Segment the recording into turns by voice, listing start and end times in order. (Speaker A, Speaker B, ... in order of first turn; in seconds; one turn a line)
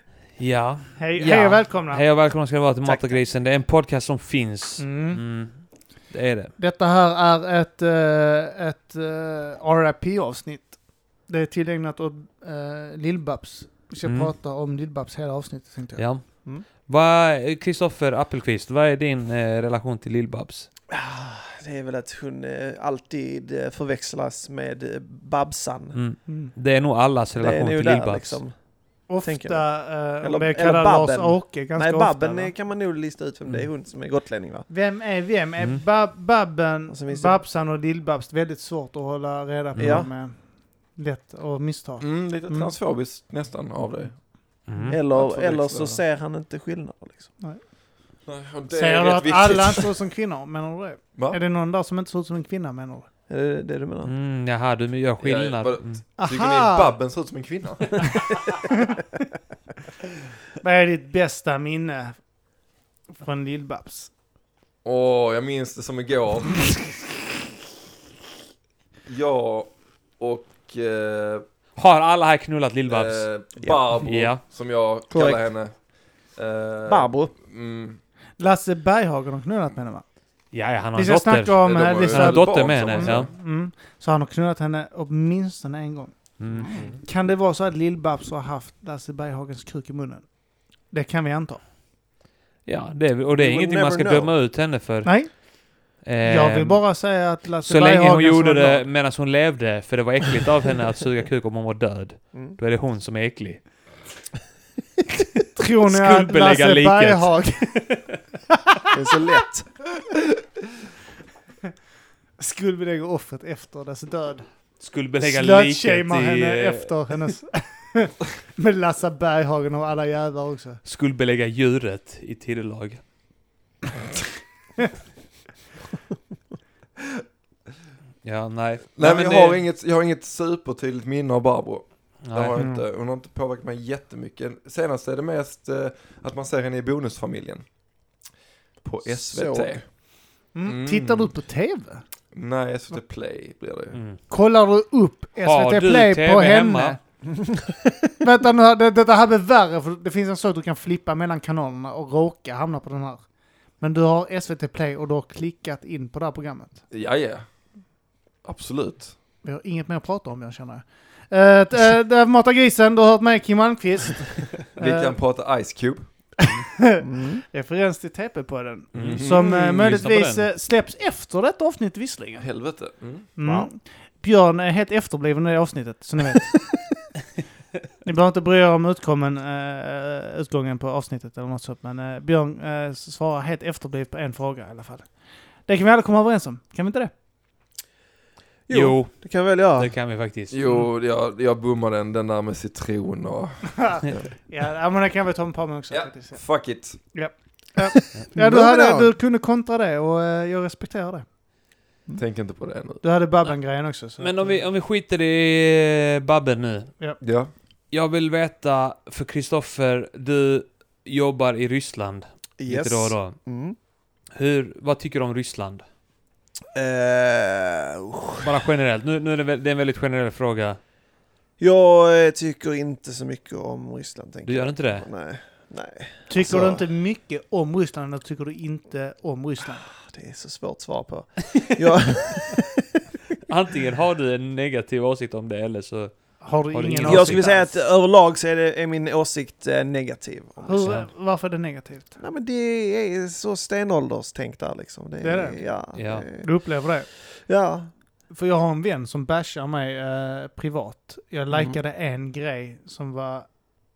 Speaker A: 0.4-6.5
Speaker B: 1.0-2.1
Speaker B: 4.8-5.2
Speaker B: 6.6-16.1
Speaker A: 14.0-14.3
Speaker A: 15.9-20.7
Speaker C: 20.9-26.0
Speaker A: 25.9-28.4
Speaker B: 26.3-26.5
Speaker C: 27.4-34.7
Speaker B: 29.1-32.5
Speaker B: 34.7-42.7
Speaker C: 36.9-37.4
Speaker A: 39.8-40.0
Speaker C: 39.8-40.1
Speaker D: 42.0-44.3
Speaker A: 44.7-45.0
Speaker D: 44.8-46.0
Speaker C: 44.9-47.3
Speaker D: 48.2-49.9
Speaker B: 48.7-53.1
Speaker C: 53.3-54.1
Speaker A: 54.0-56.0
Speaker D: 55.2-58.3
Speaker B: 56.2-57.0
Speaker B: 60.6-62.2
Speaker B: 63.2-64.1
Speaker D: 64.8-66.9
Speaker D: 69.0-71.4
Speaker A: 71.8-74.4
Speaker D: 72.9-75.7
Speaker C: 75.1-75.4
Speaker D: 76.3-78.0
Speaker C: 76.8-77.3
Speaker B: 78.4-80.0
Speaker A: 80.5-83.3
Speaker B: 80.9-90.3
Speaker D: 81.6-83.3
Speaker A: 86.4-86.7
Speaker C: 86.5-87.0
Speaker D: 86.7-87.0
Speaker B: 90.8-91.6
Speaker A: 92.6-95.4
Speaker C: 93.3-94.3
Speaker B: 95.0-95.4
Speaker B: 95.9-98.8
Speaker A: 96.0-103.7
Speaker C: 102.3-102.6
Speaker B: 105.5-107.9
Speaker A: 105.8-108.2
Speaker C: 108.9-109.7
Speaker B: 112.4-120.8
Speaker A: 114.8-117.2
Speaker A: 120.8-123.0
Speaker A: 128.2-129.6
Speaker D: 129.0-137.6
Speaker A: 132.2-132.6
Speaker B: 132.6-132.8
Speaker D: 138.8-139.9
Speaker C: 139.1-139.8
Speaker B: 140.5-142.0
Speaker D: 140.6-141.3
Speaker D: 142.3-144.0
Speaker A: 143.9-144.2
Speaker B: 144.3-147.0
Speaker A: 145.4-147.0
Speaker B: 148.2-153.2
Speaker B: 153.8-156.8
Speaker D: 156.9-157.7
Speaker D: 158.4-159.1
Speaker B: 159.4-165.2
Speaker D: 164.8-166.1
Speaker B: 166.5-172.5
Speaker C: 167.0-167.4
Speaker D: 168.9-169.5
Speaker A: 168.9-170.5
Speaker D: 172.4-173.3
Speaker B: 173.3-176.7
Speaker C: 173.4-173.7
Speaker B: 178.0-185.1
Speaker B: 185.6-187.1
Speaker C: 188.7-189.9
Speaker A: 188.7-190.8
Speaker D: 190.5-194.2
Speaker B: 193.8-196.4
Speaker D: 195.9-197.0
Speaker B: 197.1-201.2
Speaker C: 198.3-199.1
Speaker D: 202.2-203.0
Speaker B: 203.0-204.6
Speaker A: 204.2-206.9
Speaker D: 207.2-207.5
Speaker A: 207.9-213.4
Speaker C: 212.6-213.8
Speaker A: 214.3-215.8
Speaker C: 216.7-218.4
Speaker A: 218.4-220.8
Speaker C: 221.6-226.8
Speaker A: 224.4-225.1
Speaker B: 226.3-229.9
Speaker C: 229.8-232.8
Speaker A: 233.5-237.6
Speaker B: 236.4-237.8
Speaker C: 237.0-240.9
Speaker B: 240.6-242.1
Speaker C: 242.2-246.8
Speaker B: 245.2-245.7
Speaker A: 245.9-246.3
Speaker B: 246.4-247.1
Speaker C: 247.4-247.9
Speaker B: 248.3-253.5
Speaker C: 251.5-251.8